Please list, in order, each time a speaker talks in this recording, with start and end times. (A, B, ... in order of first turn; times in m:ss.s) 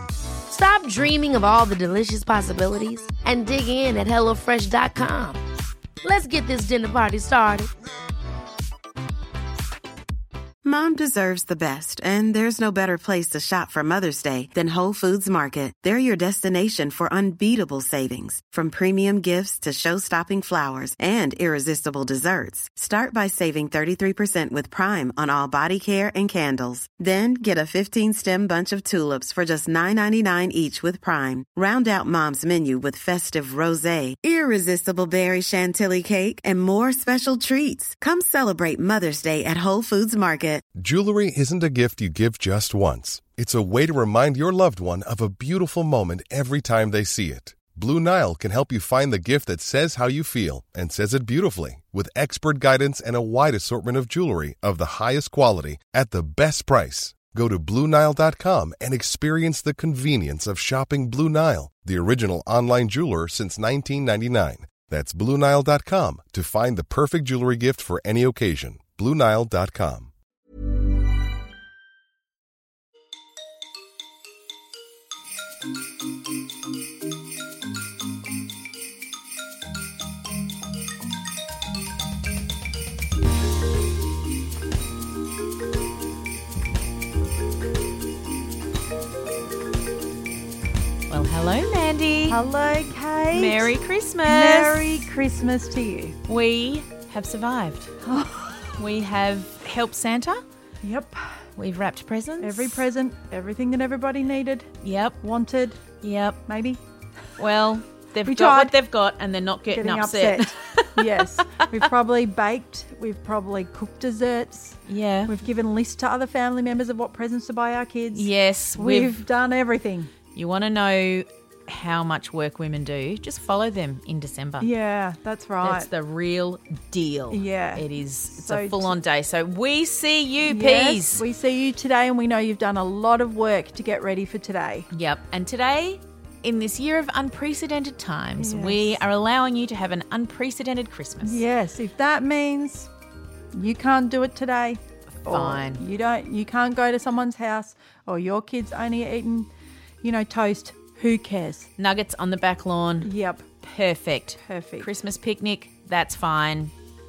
0:00.5-0:05.4 A
0:06.0-0:07.7 A
0:10.6-0:40.6 B
0:40.8-1:10.1 C
1:31.1-1:32.4 D
1:32.3-1:36.2 E
1:33.3-1:35.1 D
1:36.3-1:38.0 D
1:38.1-1:38.8 E
1:38.8-1:40.4 D
1:40.8-1:41.2 E
1:41.6-1:42.8 D
1:42.4-1:44.7 E
1:44.8-1:45.2 D
1:45.2-1:45.8 E
1:46.0-1:46.4 D
1:46.5-1:46.8 E
1:47.4-1:51.6 D
1:48.2-1:48.8 E
1:49.7-2:00.1 E
1:54.8-1:55.3 D
1:58.1-1:59.2 D
2:00.3-2:04.7 D
2:04.6-2:05.9 E
2:05.6-2:11.2 D
2:07.3-2:09.0 E
2:10.4-2:14.9 E
2:14.9-2:21.4 D
2:18.4-2:19.0 E
2:21.2-2:22.9 E
2:23.5-2:29.5 E
2:25.2-2:25.8 D
2:30.0-2:31.7 E
2:31.8-2:36.7 D
2:33.0-2:33.5 E
2:34.4-2:34.9 E